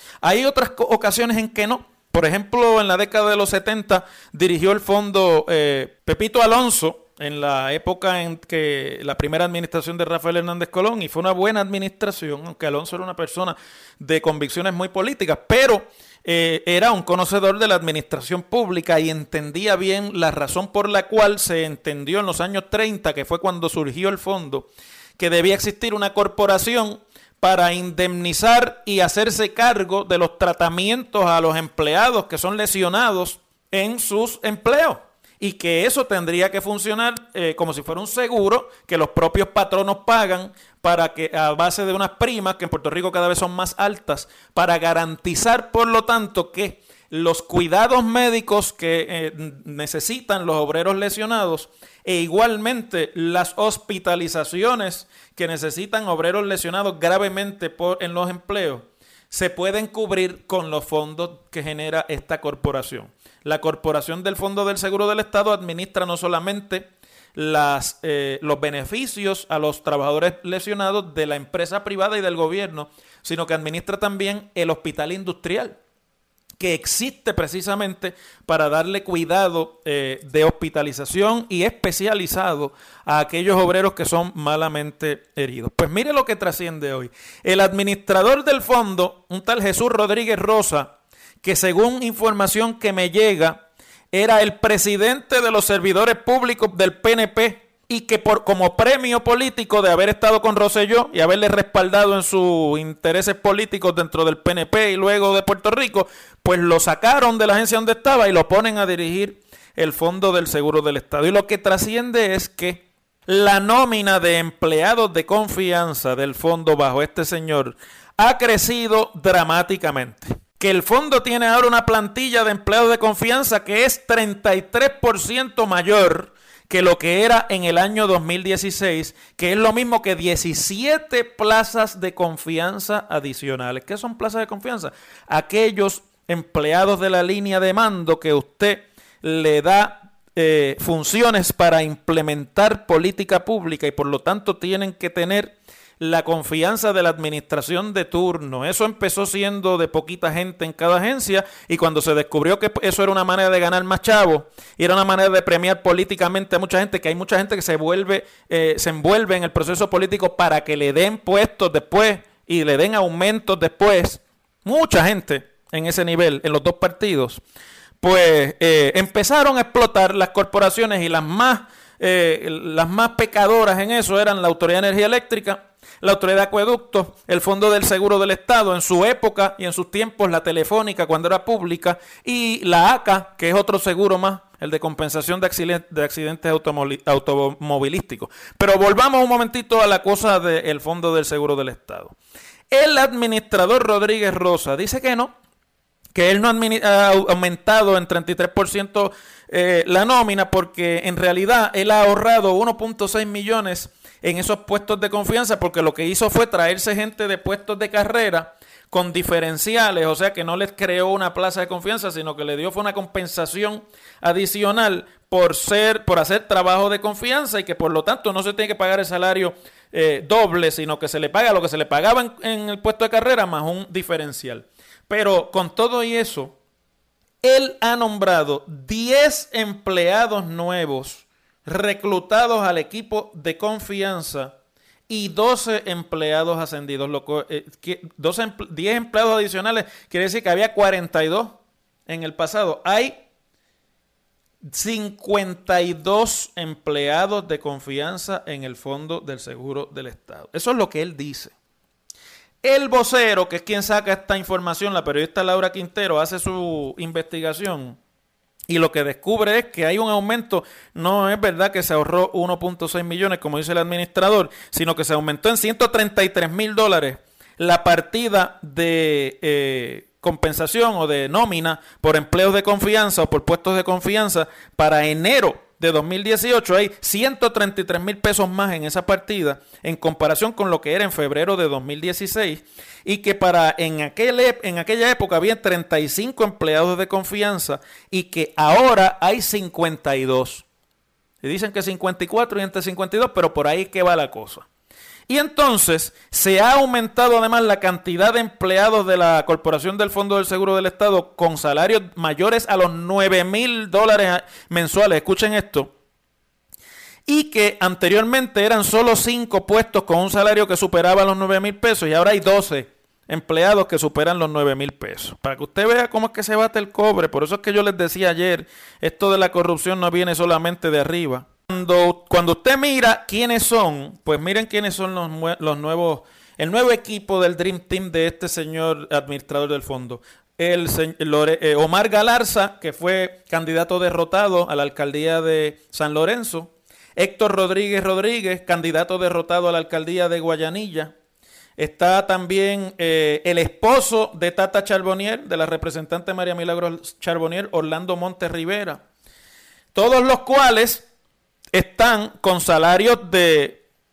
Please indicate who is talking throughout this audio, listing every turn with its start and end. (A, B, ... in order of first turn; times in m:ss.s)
0:00.2-1:15.8 A
1:16.6-2:47.4 A
2:48.0-3:12.2 A
3:12.7-3:15.4 A
3:16.1-3:46.6 A
3:47.4-3:54.5 A
3:55.1-4:03.2 A
4:04.6-4:11.6 A
4:12.6-4:18.0 A
4:18.7-4:50.6 A
4:51.4-4:54.7 A
4:55.3-5:05.9 A
5:07.3-5:41.1 A
5:41.8-5:49.0 A
5:49.9-5:51.1 A
5:51.7-5:53.8 A